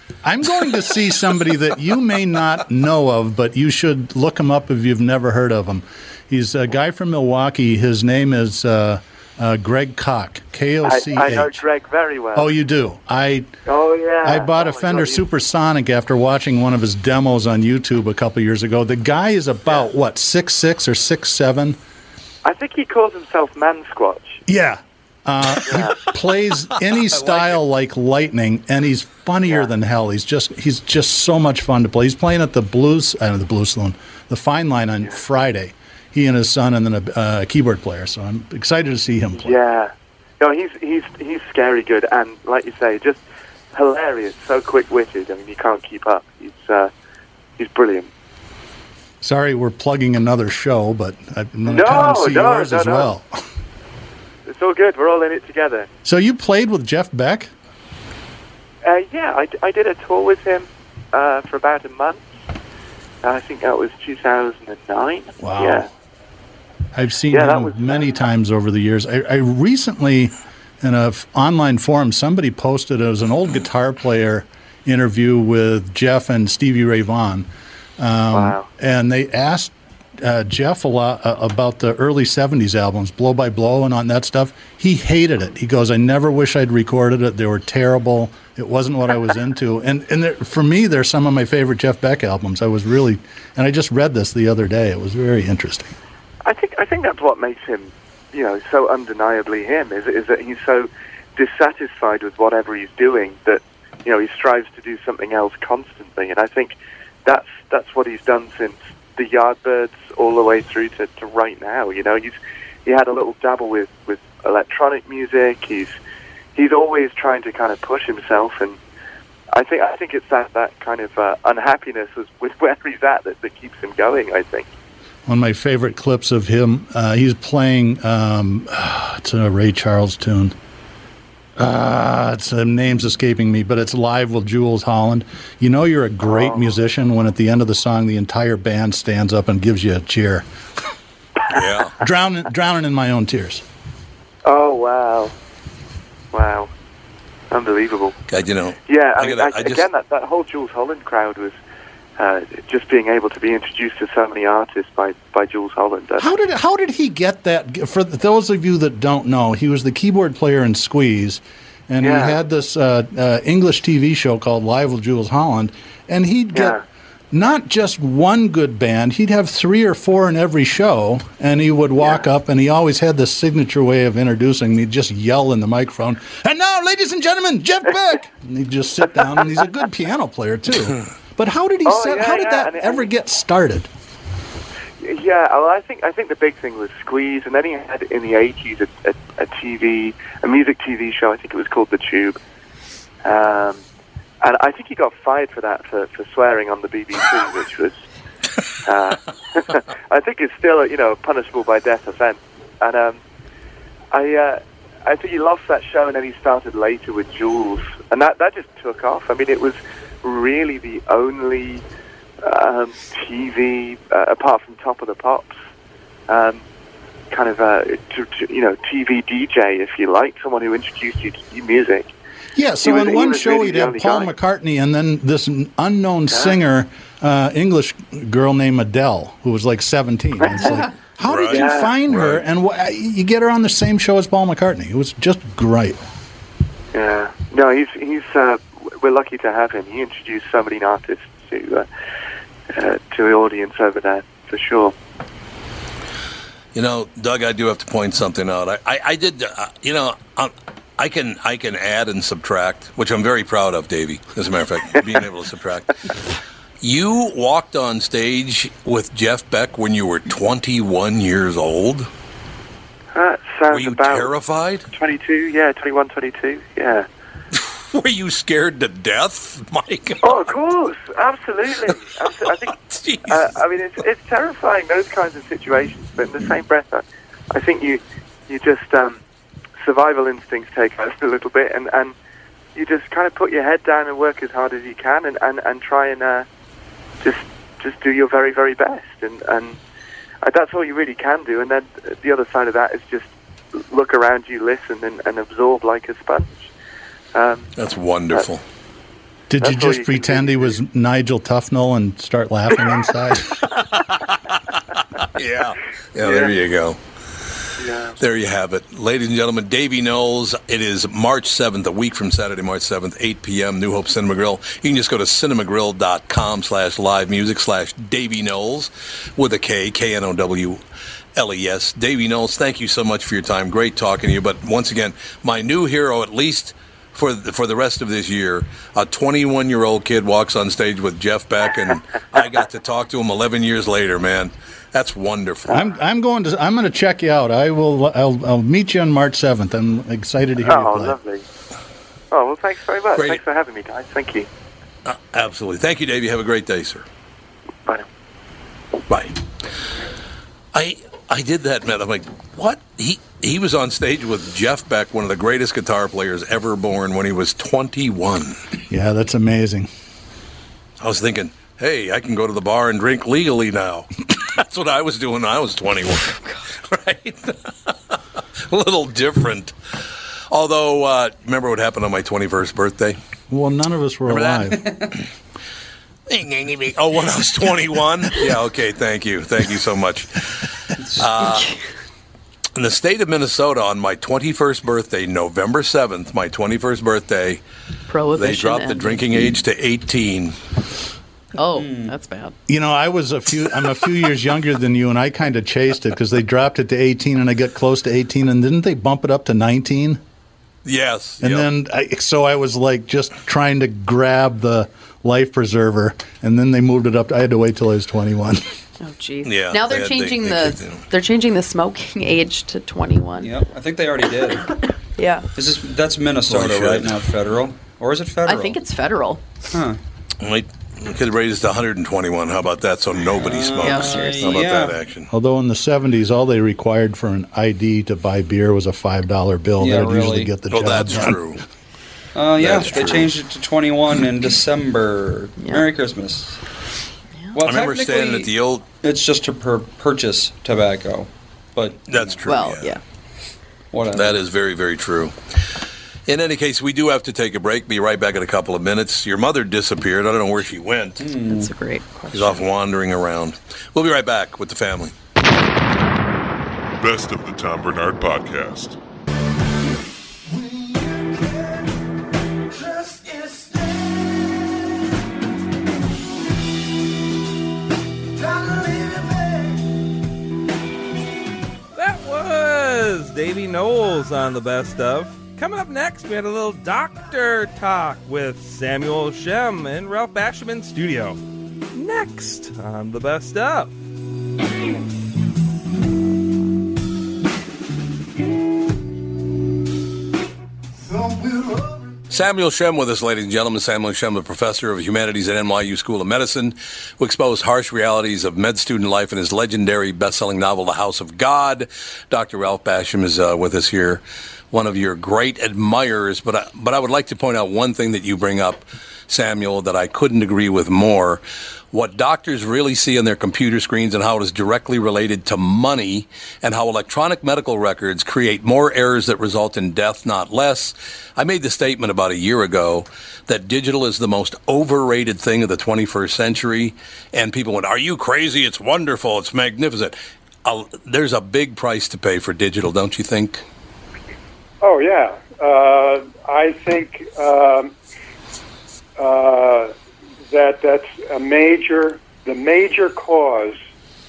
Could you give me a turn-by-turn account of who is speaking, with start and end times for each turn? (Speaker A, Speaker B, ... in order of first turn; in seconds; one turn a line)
Speaker A: 0.2-11.6
Speaker B: 10.8-12.5
Speaker A: 12.3-13.5
Speaker B: 13.7-15.2
Speaker A: 14.2-21.8
Speaker B: 22.4-24.4
Speaker A: 24.4-39.6
Speaker B: 25.6-26.0
Speaker B: 39.4-43.2
Speaker B: 43.7-46.9
Speaker B: 47.6-48.1
Speaker A: 49.2-53.3
Speaker B: 51.7-53.1
Speaker B: 54.5-55.9
Speaker A: 56.0-57.5
Speaker B: 58.8-62.2
Speaker B: 63.2-65.9
Speaker A: 65.4-65.9
Speaker A: 66.9-95.9
Speaker B: 67.3-68.1
Speaker B: 78.3-78.7
Speaker B: 96.4-112.3
Speaker B: 112.8-115.9
Speaker B: 116.5-118.8
Speaker B: 119.5-124.7
Speaker A: 125.3-130.5
Speaker A: 131.6-140.4
Speaker B: 136.2-136.7
Speaker C: 141.5-142.0
Speaker A: 142.0-143.6
Speaker B: 144.4-145.3
Speaker B: 146.3-146.7
Speaker B: 147.5-148.2
Speaker C: 148.3-149.8
Speaker B: 148.9-151.6
Speaker B: 152.2-156.3
Speaker A: 156.2-166.8
Speaker B: 162.0-162.3
Speaker B: 166.5-166.8
Speaker A: 167.3-183.9
Speaker B: 181.8-183.1
Speaker B: 185.0-192.4
Speaker B: 193.2-193.8
Speaker B: 194.4-198.0
Speaker B: 198.8-203.2
Speaker B: 204.1-211.8
Speaker B: 212.4-215.5
Speaker B: 216.3-216.6
Speaker B: 217.3-222.1
Speaker A: 222.6-236.0
Speaker B: 222.8-224.3
Speaker B: 226.3-226.6
Speaker B: 230.4-230.7
Speaker C: 231.2-232.4
Speaker B: 231.5-231.9
Speaker B: 236.9-241.9
Speaker B: 242.7-244.9
Speaker C: 246.7-256.0
Speaker C: 256.8-262.1
Speaker B: 263.1-264.3
Speaker C: 263.7-264.9
Speaker B: 264.9-267.1
Speaker C: 267.5-270.3
Speaker B: 270.2-272.7
Speaker C: 272.7-273.4
Speaker B: 273.3-279.2
Speaker B: 279.8-282.1
Speaker B: 282.7-286.4
Speaker B: 287.2-289.8
Speaker B: 290.4-296.7
Speaker B: 297.3-297.7
Speaker C: 297.8-298.6
Speaker A: 299.5-303.6
Speaker B: 299.6-300.7
Speaker C: 305.3-307.0
Speaker B: 306.2-306.5
Speaker B: 307.8-308.2
Speaker C: 308.2-320.8
Speaker C: 321.3-335.8
Speaker A: 335.7-341.2
Speaker B: 340.6-341.4
Speaker B: 342.3-344.5
Speaker C: 345.0-347.1
Speaker C: 349.1-349.4
Speaker C: 350.7-358.6
Speaker A: 358.9-359.9
Speaker C: 361.0-368.1
Speaker C: 368.7-369.7
Speaker C: 370.5-373.2
Speaker A: 373.5-374.8
Speaker C: 374.3-374.9
Speaker C: 376.3-381.7
Speaker D: 381.0-381.2
Speaker E: 381.5-381.7
Speaker C: 382.7-387.6
Speaker E: 388.1-389.2
Speaker C: 388.3-390.6
Speaker E: 391.5-392.5
Speaker D: 391.7-392.1
Speaker A: 392.7-400.2
Speaker C: 400.8-401.7
Speaker A: 401.4-408.6
Speaker E: 409.0-413.5
Speaker C: 409.4-411.0
Speaker D: 413.4-414.7
Speaker E: 415.2-415.4
Speaker D: 415.5-418.8
Speaker C: 416.5-417.2
Speaker E: 418.4-419.4
Speaker D: 419.7-420.0
Speaker C: 420.4-425.3
Speaker D: 423.4-425.0
Speaker E: 423.8-424.6
Speaker A: 425.3-431.4
Speaker D: 429.8-430.5
Speaker C: 430.7-431.6
Speaker D: 432.3-436.6
Speaker C: 432.6-433.3
Speaker E: 435.6-435.8
Speaker D: 437.5-442.4
Speaker C: 437.6-438.8
Speaker C: 442.1-442.9
Speaker E: 442.4-443.0
Speaker D: 443.9-444.4
Speaker C: 444.1-445.3
Speaker C: 446.3-451.3
Speaker D: 451.2-451.7
Speaker E: 451.4-452.6
Speaker C: 452.3-455.1
Speaker F: 457.0-459.0
Speaker G: 471.9-481.4
Speaker G: 481.9-483.9
Speaker C: 492.3-533.6
Speaker H: 534.8-537.9
Speaker H: 539.2-539.9
Speaker H: 540.5-543.8